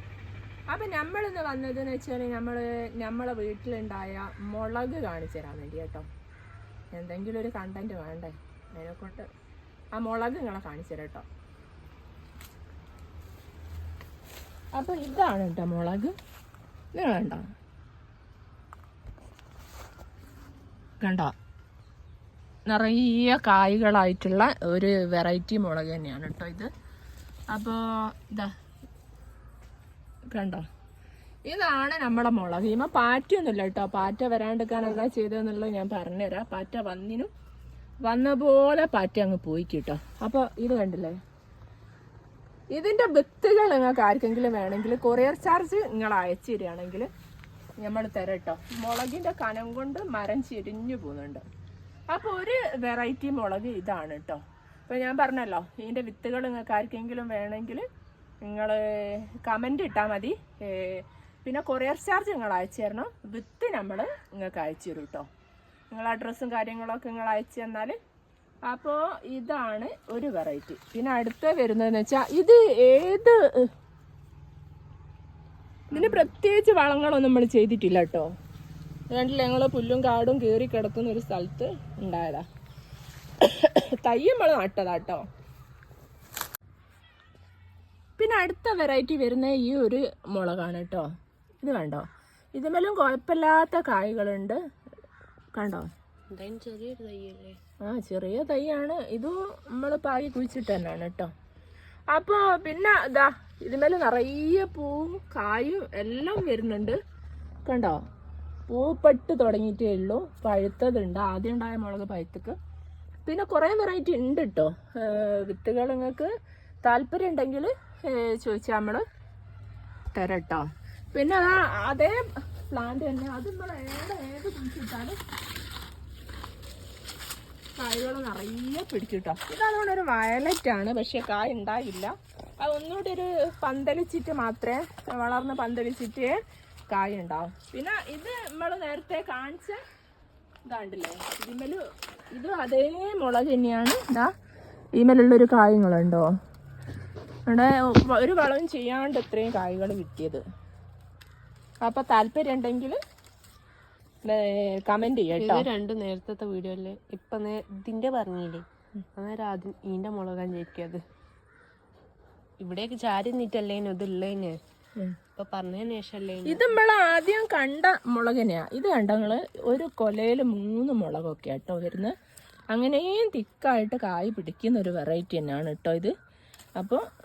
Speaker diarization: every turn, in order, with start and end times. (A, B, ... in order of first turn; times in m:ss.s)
0:00.7-0:06.0 A
0:06.9-0:09.3 A
0:10.0-0:11.2 A
0:14.7-0:16.1 A
0:16.9-0:17.4 A
0:21.0-0:21.3 A
0:22.7-0:26.7 A
0:27.5-0:28.5 A
0:30.3-0:30.6 A
0:31.5-0:37.3 A
0:38.0-0:41.2 A
0:42.7-0:47.1 A
0:47.8-0:51.4 A
0:52.1-0:57.8 A
0:58.4-1:05.2 A
1:05.9-1:08.0 A
1:08.7-1:13.7 A
1:15.9-1:18.3 A
1:15.9-1:16.3 B
1:19.1-1:22.4 A
1:23.4-1:25.2 A
1:28.2-1:31.1 A
1:31.6-1:34.6 A
1:35.6-1:35.9 A
1:36.3-1:37.6 B
1:37.8-1:41.3 A
1:42.1-1:47.0 A
1:47.6-1:48.0 A
1:48.7-1:52.6 A
1:53.2-1:56.3 A
1:56.8-1:59.0 A
2:00.1-2:05.2 A
2:07.8-2:16.4 A
2:16.9-2:19.8 A
2:20.7-2:24.3 A
2:25.0-2:26.3 A
2:27.5-2:30.4 A
2:31.8-2:33.0 A
2:34.2-2:35.7 A
2:35.3-2:38.6 B
2:39.2-2:41.0 B
2:42.6-2:44.6 B
2:45.4-2:46.8 B
2:46.4-2:52.1 A
2:52.7-2:56.1 A
2:56.8-2:57.0 A